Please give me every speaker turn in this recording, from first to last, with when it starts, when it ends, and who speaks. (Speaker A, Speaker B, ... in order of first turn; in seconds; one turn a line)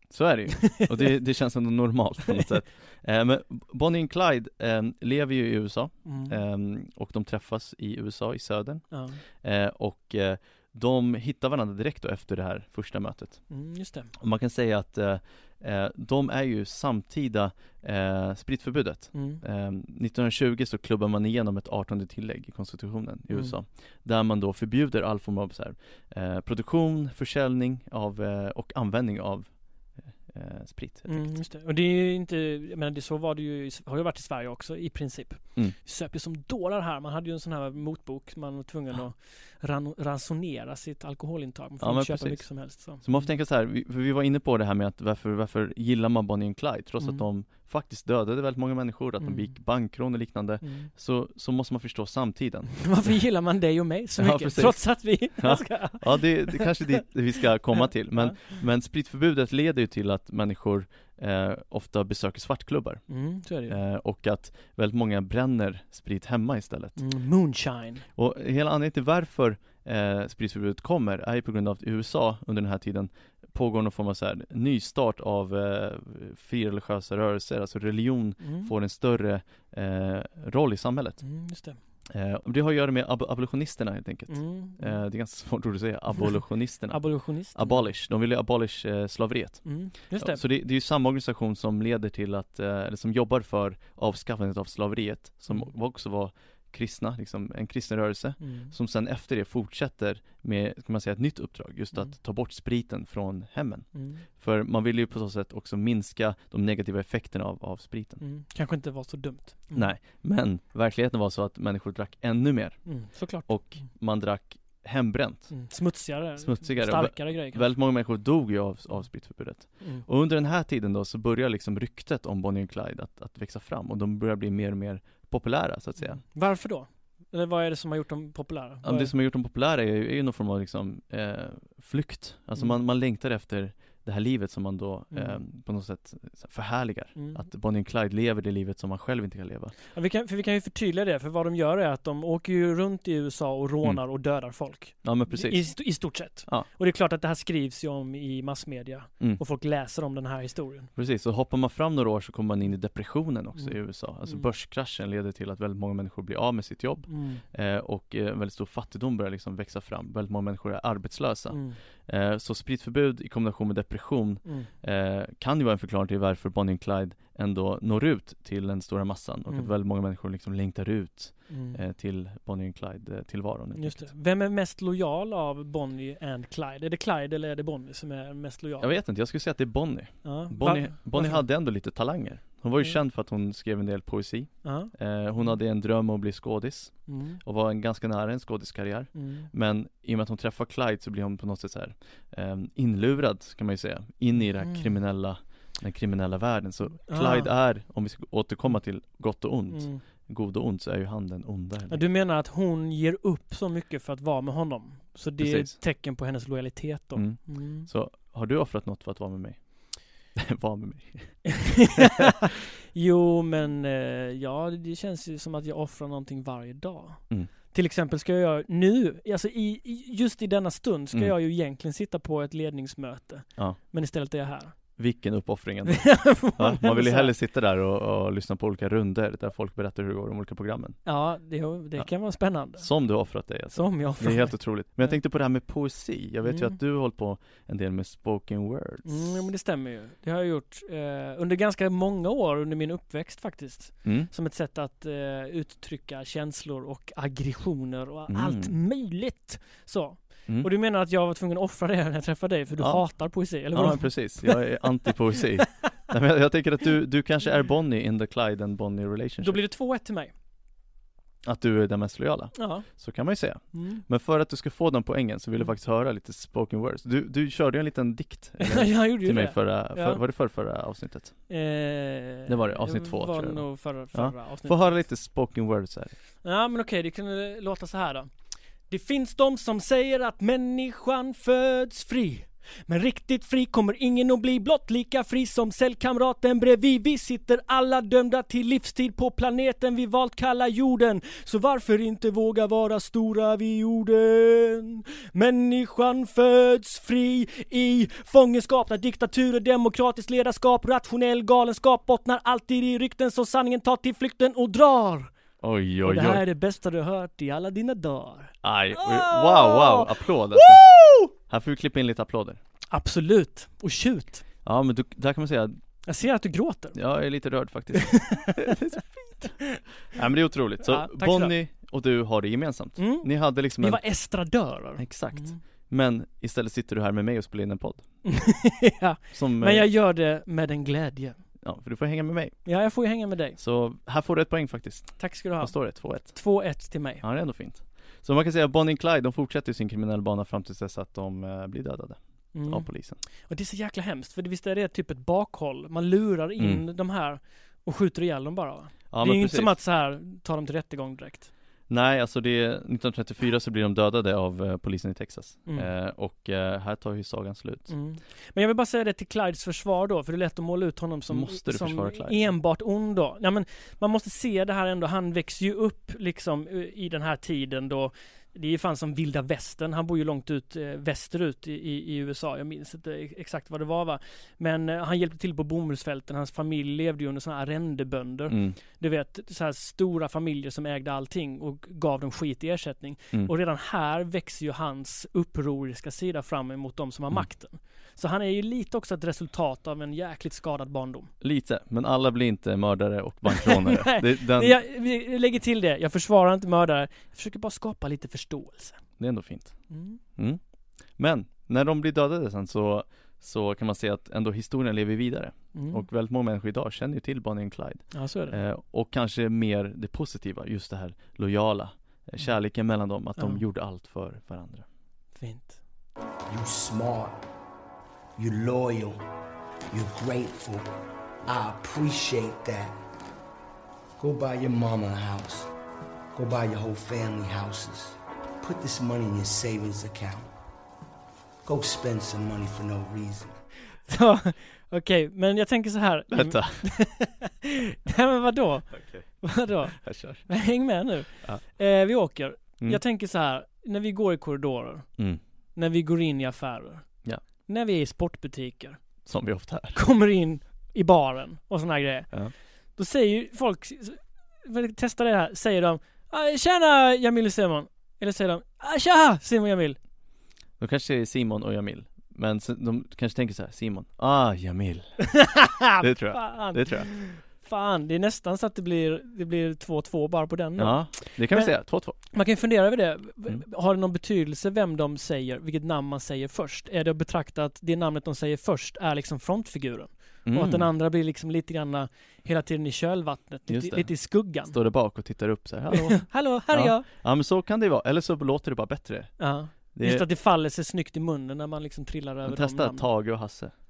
Speaker A: 0.1-13.4
Speaker B: 0.6-1.1
Speaker B: 6.0-6.4
Speaker B: 8.9-9.2
Speaker B: 13.5-14.1
Speaker A: 14.2-31.3
Speaker B: 19.1-19.4
Speaker B: 31.1-43.3
Speaker A: 41.8-53.1
Speaker B: 47.0-47.2
Speaker B: 49.2-49.5
Speaker B: 50.6-50.9
Speaker B: 52.8-57.0
Speaker A: 54.2-63.0
Speaker B: 58.1-58.6
Speaker B: 63.1-63.8
Speaker A: 63.7-67.0
Speaker B: 67.0-68.0
Speaker A: 68.2-81.2
Speaker B: 78.4-78.7
Speaker B: 81.2-81.8
Speaker A: 82.1-108.2
Speaker B: 84.3-85.0
Speaker B: 86.9-87.9
Speaker B: 89.6-90.4
Speaker B: 98.4-98.7
Speaker B: 103.9-104.2
Speaker B: 108.2-109.9
Speaker A: 109.7-115.7
Speaker B: 112.8-113.8
Speaker B: 115.5-117.7
Speaker A: 116.4-126.2
Speaker B: 119.8-120.0
Speaker B: 126.0-129.1
Speaker A: 128.8-139.7
Speaker B: 135.1-135.4
Speaker B: 137.2-137.4
Speaker B: 139.9-150.9
Speaker A: 145.0-145.8
Speaker A: 150.9-174.1
Speaker B: 153.6-154.5
Speaker B: 157.1-157.4
Speaker B: 161.5-161.8
Speaker B: 164.4-164.7
Speaker B: 169.5-169.7
Speaker B: 171.5-171.8
Speaker B: 173.8-178.9
Speaker A: 178.8-202.0
Speaker B: 180.2-181.4
Speaker B: 184.6-184.9
Speaker B: 187.1-187.4
Speaker B: 189.1-189.5
Speaker B: 194.6-194.9
Speaker B: 197.1-197.5
Speaker B: 199.7-200.0
Speaker B: 201.9-207.9
Speaker A: 205.4-205.8
Speaker A: 207.1-209.7
Speaker A: 210.3-212.3
Speaker B: 211.4-224.8
Speaker A: 225.0-231.0
Speaker B: 225.8-227.3
Speaker B: 231.0-232.9
Speaker A: 232.8-239.2
Speaker B: 233.7-235.1
Speaker B: 236.4-236.8
Speaker B: 239.0-254.7
Speaker A: 244.0-244.3
Speaker A: 248.3-248.7
Speaker A: 252.8-253.1
Speaker A: 253.7-259.6
Speaker B: 259.4-260.3
Speaker A: 261.4-271.3
Speaker B: 262.5-262.9
Speaker B: 263.7-264.0
Speaker B: 268.6-270.2
Speaker B: 271.5-275.0
Speaker A: 272.5-276.1
Speaker B: 276.4-278.3
Speaker B: 278.9-305.3
Speaker A: 305.6-306.4
Speaker B: 306.0-311.3
Speaker A: 308.6-310.9
Speaker A: 311.4-312.6
Speaker B: 312.9-314.4
Speaker A: 314.6-315.8
Speaker B: 316.1-317.0
Speaker A: 316.9-319.5
Speaker B: 317.9-319.8
Speaker A: 320.1-324.0
Speaker B: 320.8-321.5
Speaker B: 323.0-325.6
Speaker A: 325.0-328.0
Speaker B: 328.2-331.4
Speaker A: 329.3-329.9
Speaker A: 331.6-332.6
Speaker B: 332.6-333.6
Speaker A: 333.6-336.4
Speaker B: 335.2-337.2
Speaker A: 337.2-343.2
Speaker B: 342.5-342.9
Speaker B: 343.5-351.5
Speaker A: 349.1-349.7
Speaker A: 351.9-357.9
Speaker B: 357.9-391.3
Speaker A: 361.3-362.4
Speaker A: 378.5-378.8
Speaker A: 391.4-394.8
Speaker B: 393.5-399.0
Speaker A: 399.2-399.8
Speaker B: 399.9-400.2
Speaker A: 401.2-414.9
Speaker B: 405.7-406.0
Speaker B: 408.1-408.6
Speaker B: 415.4-415.8
Speaker C: 416.5-417.4
Speaker C: 418.4-419.2
Speaker C: 419.9-420.9
Speaker C: 421.4-422.9
Speaker C: 424.2-425.7
Speaker C: 426.3-430.5
Speaker C: 431.6-433.6
Speaker B: 434.1-445.1
Speaker A: 436.3-436.8
Speaker A: 439.9-440.5
Speaker B: 445.8-447.1
Speaker B: 447.6-449.0
Speaker A: 449.2-450.0
Speaker B: 449.9-452.4
Speaker B: 452.9-460.0
Speaker A: 460.8-467.2
Speaker B: 465.3-484.8
Speaker A: 470.8-472.2
Speaker A: 480.4-480.9
Speaker A: 483.7-490.3
Speaker B: 485.9-487.1
Speaker B: 489.4-493.1
Speaker A: 492.4-493.7